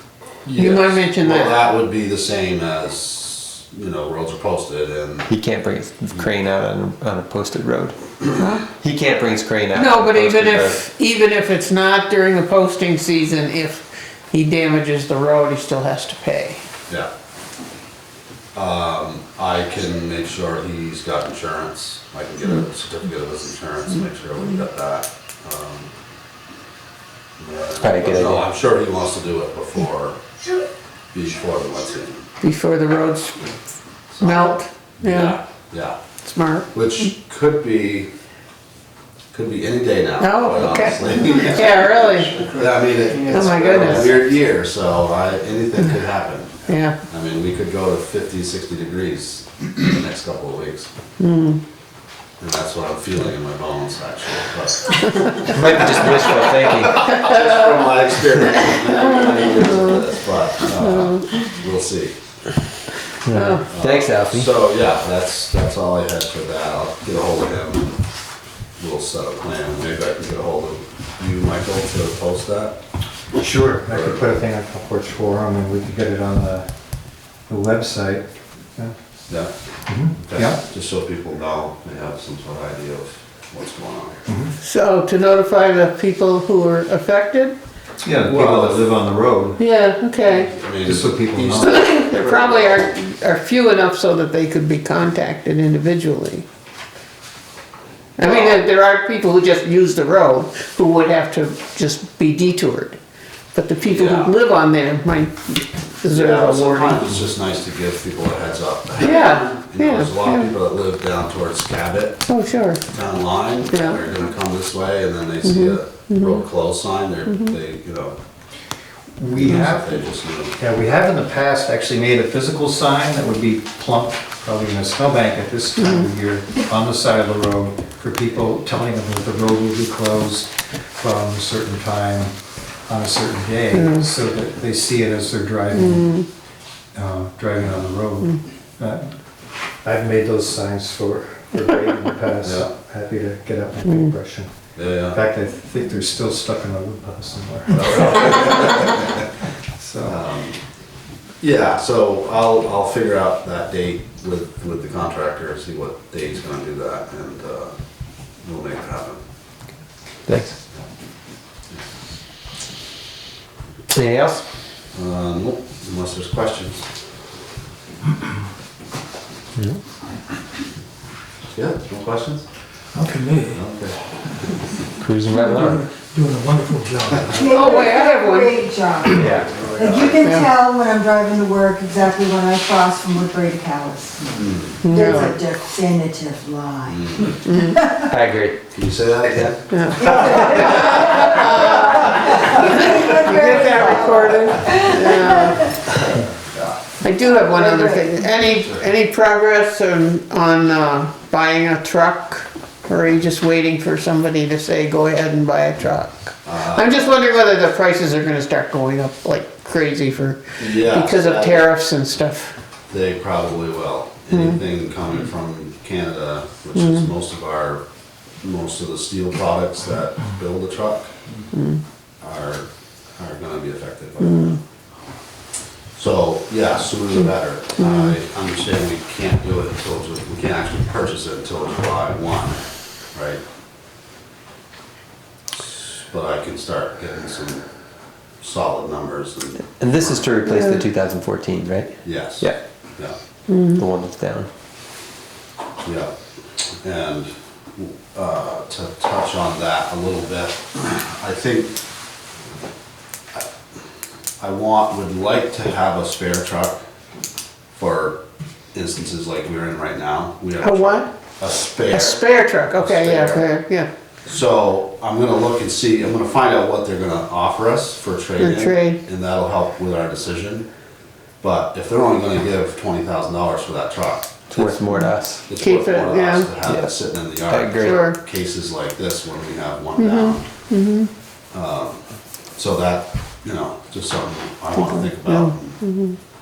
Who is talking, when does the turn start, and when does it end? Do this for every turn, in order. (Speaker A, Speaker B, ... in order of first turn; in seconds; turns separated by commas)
Speaker A: 0.5-5.3, Speaker B: 0.5-1.6, Speaker C: 5.3-8.0, Speaker B: 8.4-8.7, Speaker C: 8.6-10.8, Speaker B: 9.7-16.6, Speaker A: 18.6-25.9, Speaker A: 27.4-30.2, Speaker C: 27.8-28.4, Speaker A: 31.1-32.2, Speaker B: 32.4-33.5, Speaker A: 34.1-36.0, Speaker B: 34.2-35.4, Speaker B: 36.2-36.7, Speaker A: 36.7-38.1, Speaker A: 39.3-50.9, Speaker B: 40.2-42.5, Speaker B: 43.2-44.2, Speaker B: 46.7-47.0, Speaker B: 51.2-51.6, Speaker A: 52.4-62.1, Speaker C: 55.5-57.1, Speaker B: 60.8-61.3, Speaker C: 63.3-64.5, Speaker B: 63.3-63.6, Speaker A: 63.6-67.9, Speaker A: 68.8-72.8, Speaker D: 73.4-76.7, Speaker A: 73.9-74.2, Speaker D: 77.5-78.9, Speaker D: 79.9-80.6, Speaker A: 80.2-84.2, Speaker D: 84.3-84.5, Speaker B: 84.6-87.5, Speaker D: 88.0-89.6, Speaker A: 88.2-88.8, Speaker B: 89.6-90.5, Speaker A: 90.2-92.9, Speaker D: 90.8-91.8, Speaker B: 91.6-96.5, Speaker B: 98.2-103.0, Speaker A: 98.2-98.6, Speaker B: 103.5-107.0, Speaker A: 103.8-104.3, Speaker A: 106.1-112.2, Speaker B: 109.0-110.5, Speaker B: 112.3-112.8, Speaker A: 112.9-118.2, Speaker B: 113.7-114.0, Speaker B: 115.4-116.4, Speaker B: 117.3-117.5, Speaker D: 119.2-120.0, Speaker A: 119.4-120.5, Speaker D: 120.6-132.3, Speaker B: 125.8-126.1, Speaker D: 132.9-136.2, Speaker B: 133.7-134.1, Speaker B: 135.7-136.2, Speaker D: 136.9-139.1, Speaker D: 139.8-144.5, Speaker A: 142.4-142.7, Speaker B: 143.9-144.1, Speaker A: 144.8-145.2, Speaker D: 145.1-149.0, Speaker A: 147.7-149.2, Speaker D: 149.8-150.2, Speaker A: 150.1-150.6, Speaker A: 151.4-157.8, Speaker A: 158.4-159.2, Speaker C: 160.3-160.6, Speaker C: 163.9-164.4, Speaker A: 164.9-166.9, Speaker A: 171.5-172.4, Speaker E: 173.0-173.6, Speaker A: 173.5-174.0, Speaker C: 175.0-175.9, Speaker E: 175.4-177.3, Speaker D: 176.2-176.8, Speaker F: 177.2-188.1, Speaker B: 177.5-178.6, Speaker C: 179.1-179.6, Speaker A: 179.3-180.4, Speaker B: 180.2-180.5, Speaker A: 184.3-185.3, Speaker B: 184.8-185.4, Speaker A: 186.9-187.4, Speaker B: 187.4-187.8, Speaker C: 188.1-188.6, Speaker A: 188.7-189.7, Speaker C: 189.2-190.9, Speaker B: 189.7-195.7, Speaker F: 190.0-195.7, Speaker A: 195.9-196.8, Speaker B: 197.0-212.6, Speaker F: 197.2-198.1, Speaker A: 198.5-198.8, Speaker A: 206.4-207.1, Speaker A: 210.6-211.7, Speaker A: 212.9-217.8, Speaker B: 214.3-214.6, Speaker B: 216.8-217.1, Speaker A: 218.4-221.1, Speaker B: 221.5-221.8, Speaker A: 222.2-224.6, Speaker B: 224.2-224.6, Speaker A: 226.0-232.6, Speaker B: 227.8-228.2, Speaker A: 233.1-233.4, Speaker A: 235.7-237.7, Speaker A: 238.4-240.3, Speaker C: 239.7-242.6, Speaker B: 240.5-240.8, Speaker A: 242.0-243.2, Speaker B: 243.5-243.8, Speaker C: 243.7-244.5, Speaker A: 245.8-251.8, Speaker A: 254.4-256.8, Speaker A: 257.8-258.2, Speaker A: 258.7-263.5, Speaker B: 260.6-261.1, Speaker B: 261.9-263.9, Speaker A: 264.3-270.6, Speaker B: 268.4-269.0, Speaker A: 271.4-280.4, Speaker C: 274.5-275.4, Speaker B: 274.9-276.5, Speaker C: 276.6-276.9, Speaker C: 277.5-278.1, Speaker B: 277.8-278.2, Speaker B: 280.0-281.1, Speaker A: 281.5-282.0, Speaker A: 282.6-285.8, Speaker B: 284.8-286.2